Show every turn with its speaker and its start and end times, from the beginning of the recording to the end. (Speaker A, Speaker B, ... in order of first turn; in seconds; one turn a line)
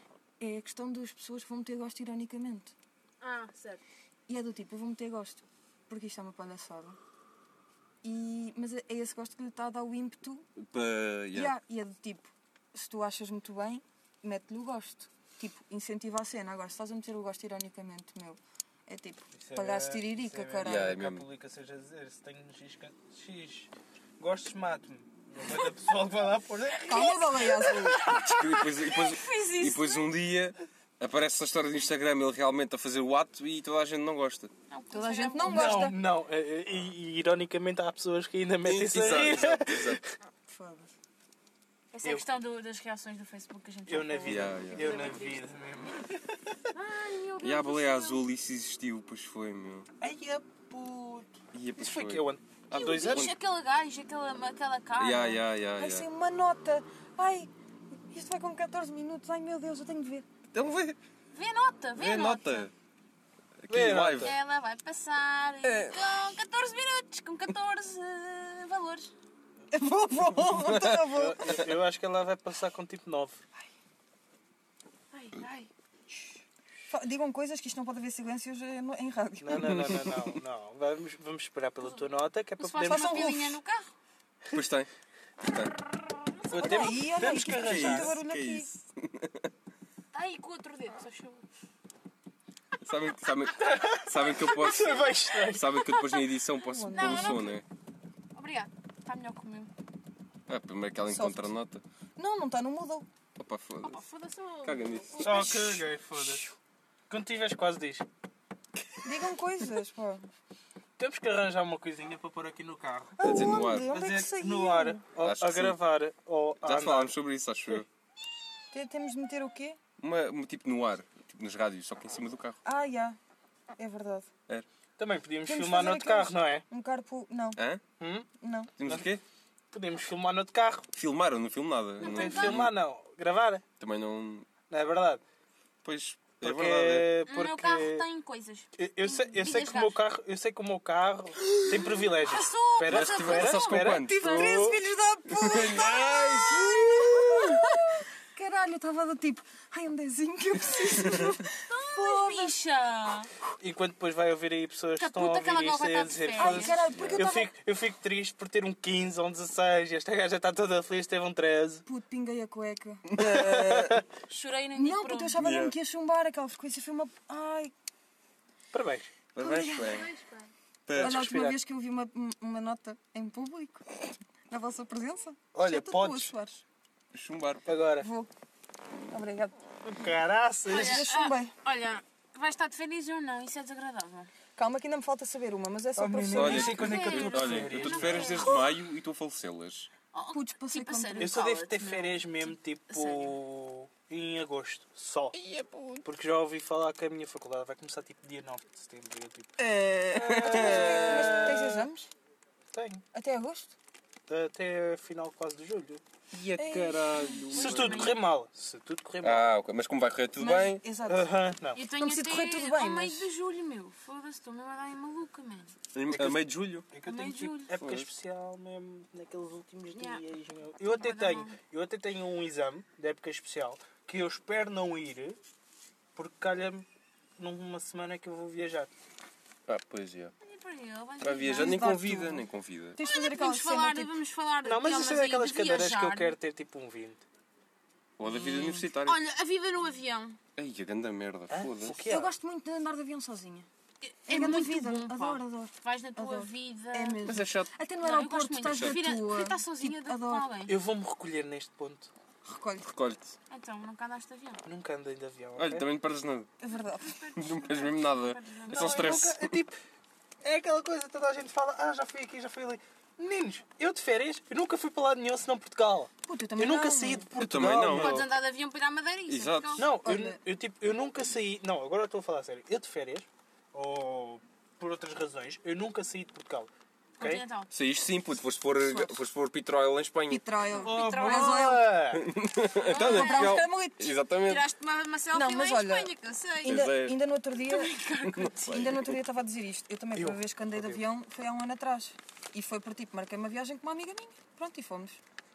Speaker A: 0.4-2.7
Speaker B: 3.2-3.8
Speaker A: 4.3-7.0
Speaker A: 8.0-10.5
Speaker C: 10.6-11.6
Speaker A: 11.3-20.9
Speaker D: 19.3-27.6
Speaker C: 20.6-21.2
Speaker B: 26.8-30.1
Speaker A: 26.9-28.0
Speaker C: 28.0-34.5
Speaker B: 34.7-35.8
Speaker A: 34.9-36.0
Speaker D: 35.4-40.0
Speaker C: 38.6-40.0
Speaker A: 40.5-40.9
Speaker B: 41.9-45.4
Speaker D: 43.9-46.4
Speaker C: 44.2-45.0
Speaker B: 46.7-48.2
Speaker C: 47.4-49.9
Speaker D: 50.0-53.3
Speaker C: 51.5-53.3
Speaker B: 52.7-55.4
Speaker C: 55.0-56.1
Speaker A: 55.8-57.5
Speaker A: 58.1-60.3
Speaker C: 60.5-61.0
Speaker B: 61.3-62.7
Speaker C: 62.0-62.7
Speaker C: 63.6-64.3
Speaker D: 63.7-64.3
Speaker B: 64.2-69.1
Speaker C: 65.6-66.1
Speaker A: 69.7-71.7
Speaker C: 70.5-71.0
Speaker D: 71.1-73.4
Speaker B: 75.1-75.7
Speaker A: 76.9-80.0
Speaker D: 79.4-83.3
Speaker B: 82.6-83.9
Speaker A: 82.8-83.6
Speaker C: 84.5-84.9
Speaker C: 85.4-85.7
Speaker B: 86.4-86.8
Speaker D: 86.5-88.2
Speaker A: 86.5-88.7
Speaker C: 87.2-89.5
Speaker B: 90.1-91.4
Speaker C: 92.8-97.6
Speaker D: 93.6-95.8
Speaker A: 96.7-97.5
Speaker B: 96.9-97.6
Speaker B: 98.3-99.7
Speaker C: 100.5-101.8
Speaker A: 101.1-101.5
Speaker A: 102.2-103.1
Speaker C: 103.4-104.0
Speaker B: 103.8-105.7
Speaker C: 104.6-105.7
Speaker D: 105.2-106.5
Speaker D: 107.1-108.0
Speaker A: 109.0-110.3
Speaker D: 111.0-113.2
Speaker A: 113.2-115.0
Speaker C: 113.2-113.9
Speaker D: 113.9-117.1
Speaker C: 115.2-115.8
Speaker C: 116.6-117.9
Speaker A: 118.7-119.8
Speaker C: 120.0-122.6
Speaker A: 122.6-123.2
Speaker A: 123.8-124.3
Speaker D: 125.0-126.6
Speaker A: 125.5-127.6
Speaker C: 127.5-127.8
Speaker D: 128.0-128.3
Speaker A: 128.4-128.7
Speaker C: 128.8-129.2
Speaker D: 129.7-130.9
Speaker C: 130.9-132.7
Speaker D: 132.0-133.6
Speaker B: 132.0-132.6
Speaker C: 133.8-134.5
Speaker D: 134.7-135.2
Speaker C: 135.8-137.1
Speaker D: 136.4-138.0
Speaker B: 137.3-140.0
Speaker D: 138.8-144.8
Speaker B: 142.2-143.9
Speaker C: 142.8-144.7
Speaker A: 143.9-152.6
Speaker C: 145.3-147.6
Speaker B: 147.1-147.6
Speaker B: 151.7-153.3
Speaker D: 153.6-161.8
Speaker B: 155.0-156.8
Speaker A: 156.4-157.5
Speaker C: 156.9-157.3
Speaker A: 161.8-164.0
Speaker C: 163.2-163.7
Speaker B: 164.3-165.4
Speaker A: 164.7-167.7
Speaker C: 165.4-165.8
Speaker D: 168.7-169.1
Speaker C: 169.3-170.1
Speaker A: 169.4-170.1
Speaker B: 169.8-170.5
Speaker C: 170.8-171.5
Speaker D: 170.9-171.6
Speaker A: 171.0-176.6
Speaker D: 175.5-176.3
Speaker C: 177.1-177.7
Speaker D: 177.7-178.1
Speaker A: 178.0-178.3
Speaker A: 179.1-179.6
Speaker D: 179.8-181.1
Speaker B: 180.7-184.3
Speaker A: 180.7-181.5
Speaker A: 184.6-187.1
Speaker D: 185.9-188.5
Speaker C: 186.3-189.9
Speaker B: 186.6-188.7
Speaker B: 190.1-193.3
Speaker A: 190.3-191.3
Speaker D: 191.2-195.3
Speaker C: 195.4-196.0
Speaker A: 195.5-196.0
Speaker D: 196.0-199.5
Speaker A: 199.6-202.1
Speaker D: 200.1-201.8
Speaker C: 200.2-201.5
Speaker D: 202.7-203.0
Speaker A: 203.1-203.7
Speaker D: 204.3-206.0
Speaker C: 206.3-208.2
Speaker A: 206.5-207.4
Speaker B: 207.5-208.2
Speaker D: 207.5-209.5
Speaker C: 209.2-210.8
Speaker A: 210.4-211.3
Speaker D: 211.1-211.8
Speaker B: 211.7-215.7
Speaker A: 211.9-213.3
Speaker C: 215.9-216.9
Speaker D: 216.1-225.4
Speaker B: 217.0-217.8
Speaker C: 217.8-218.1
Speaker B: 219.9-220.2
Speaker B: 220.9-221.6
Speaker D: 226.1-226.8
Speaker D: 227.4-228.9
Speaker C: 229.7-230.3
Speaker B: 230.4-231.9
Speaker C: 231.2-233.0
Speaker A: 231.5-234.1
Speaker B: 233.0-236.3
Speaker D: 234.6-237.2
Speaker C: 238.2-239.2
Speaker B: 238.2-240.4
Speaker C: 240.6-242.0
Speaker D: 241.5-242.3
Speaker A: 242.1-243.7
Speaker B: 244.0-247.3
Speaker A: 244.3-250.5
Speaker C: 247.2-247.7
Speaker B: 248.0-250.7
Speaker C: 248.7-249.0
Speaker D: 250.7-252.1
Speaker A: 252.4-252.9
Speaker C: 252.8-253.3
Speaker B: 253.5-254.6
Speaker D: 254.6-255.9
Speaker C: 255.6-256.5
Speaker A: 256.6-257.2
Speaker B: 256.7-259.2
Speaker C: 257.3-259.5
Speaker D: 258.7-259.8
Speaker D: 260.4-268.3
Speaker A: 266.2-267.3
Speaker C: 267.4-268.3
Speaker B: 267.9-269.8
Speaker C: 269.3-269.9
Speaker D: 269.8-277.4
Speaker A: 270.0-270.4
Speaker B: 277.2-277.7
Speaker C: 277.7-280.4
Speaker A: 278.8-279.2
Speaker A: 280.3-281.9
Speaker B: 280.7-281.7
Speaker D: 280.7-282.3
Speaker C: 282.1-284.7
Speaker A: 282.8-284.1
Speaker B: 282.9-283.6
Speaker B: 284.4-286.9
Speaker A: 285.3-287.9
Speaker C: 286.6-287.2
Speaker B: 287.6-288.9
Speaker C: 288.2-289.2
Speaker A: 288.7-295.2
Speaker D: 290.1-291.0